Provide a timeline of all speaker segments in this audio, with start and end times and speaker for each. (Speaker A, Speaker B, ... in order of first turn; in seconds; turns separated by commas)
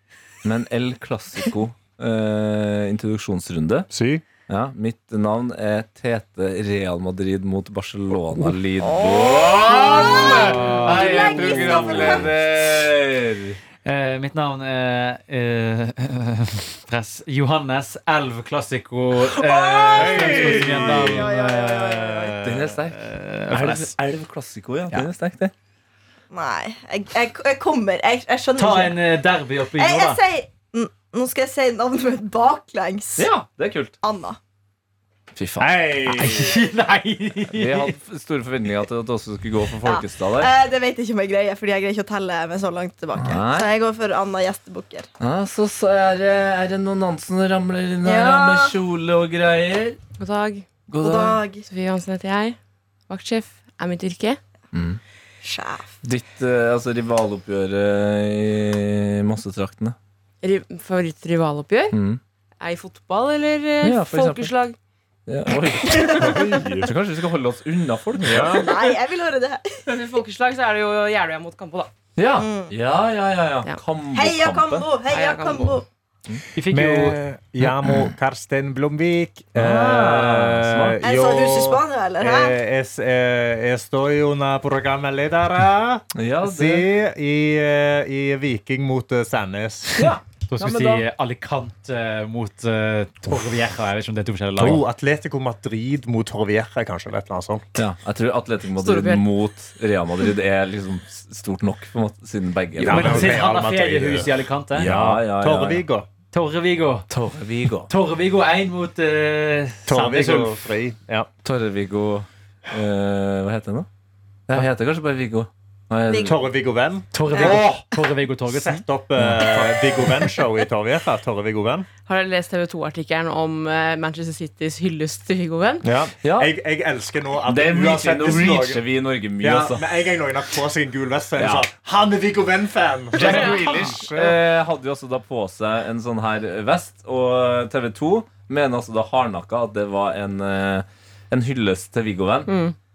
Speaker A: 0.4-3.9, Speaker B: 3.9-4.2, Speaker A: 4.5-13.6, Speaker C: 8.8-12.3, Speaker D: 10.3-11.9, Speaker D: 13.8-22.3, Speaker C: 19.3-22.4, Speaker B: 19.9-21.2, Speaker B: 22.2-22.6, Speaker A: 22.4-23.0, Speaker D: 22.9-23.9, Speaker A: 23.5-25.5, Speaker C: 26.3-29.0, Speaker D: 28.6-30.2, Speaker C: 29.7-33.3, Speaker A: 33.2-34.0, Speaker C: 34.0-34.4, Speaker A: 35.3-36.3, Speaker B: 35.6-36.5, Speaker D: 36.1-38.0, Speaker A: 37.5-40.5, Speaker C: 39.8-45.1, Speaker A: 43.2-43.7, Speaker A: 45.2-50.0, Speaker C: 48.0-48.7, Speaker E: 50.2-50.7, Speaker A: 50.9-51.4, Speaker C: 50.9-51.6, Speaker E: 51.7-52.6, Speaker E: 53.1-54.4, Speaker A: 54.7-55.0, Speaker C: 55.4-55.9, Speaker A: 56.0-60.0, Speaker E: 60.4-62.0, Speaker A: 61.9-62.2, Speaker E: 62.6-64.8, Speaker A: 63.8-64.5, Speaker A: 65.3-68.8, Speaker C: 65.9-66.2, Speaker B: 66.2-66.9, Speaker B: 68.2-68.6, Speaker C: 68.3-69.7, Speaker E: 69.9-71.9, Speaker A: 72.2-74.9, Speaker C: 72.4-72.7, Speaker C: 74.1-75.8, Speaker E: 75.1-75.8, Speaker D: 76.5-77.2, Speaker B: 76.7-90.1, Speaker A: 77.8-78.1, Speaker A: 79.5-81.0, Speaker C: 81.0-82.6, Speaker A: 86.2-86.9, Speaker A: 89.9-91.0, Speaker D: 90.5-94.8, Speaker B: 94.6-97.7, Speaker A: 97.8-103.5, Speaker E: 98.8-99.2, Speaker D: 102.8-104.9, Speaker B: 102.8-104.3, Speaker A: 104.7-105.8, Speaker B: 104.8-106.1, Speaker D: 106.3-107.1, Speaker A: 107.1-107.9, Speaker D: 107.9-110.7, Speaker B: 109.9-111.3, Speaker A: 111.4-113.9, Speaker A: 114.5-116.4, Speaker C: 116.1-116.3, Speaker B: 116.2-117.9, Speaker D: 117.1-118.8, Speaker B: 118.5-121.9, Speaker A: 119.2-119.5, Speaker E: 122.1-125.8, Speaker B: 125.8-128.8, Speaker A: 126.2-126.5, Speaker A: 127.5-129.9, Speaker B: 129.4-134.4, Speaker A: 131.4-131.7, Speaker A: 133.1-142.5, Speaker D: 133.2-134.0, Speaker E: 142.5-142.8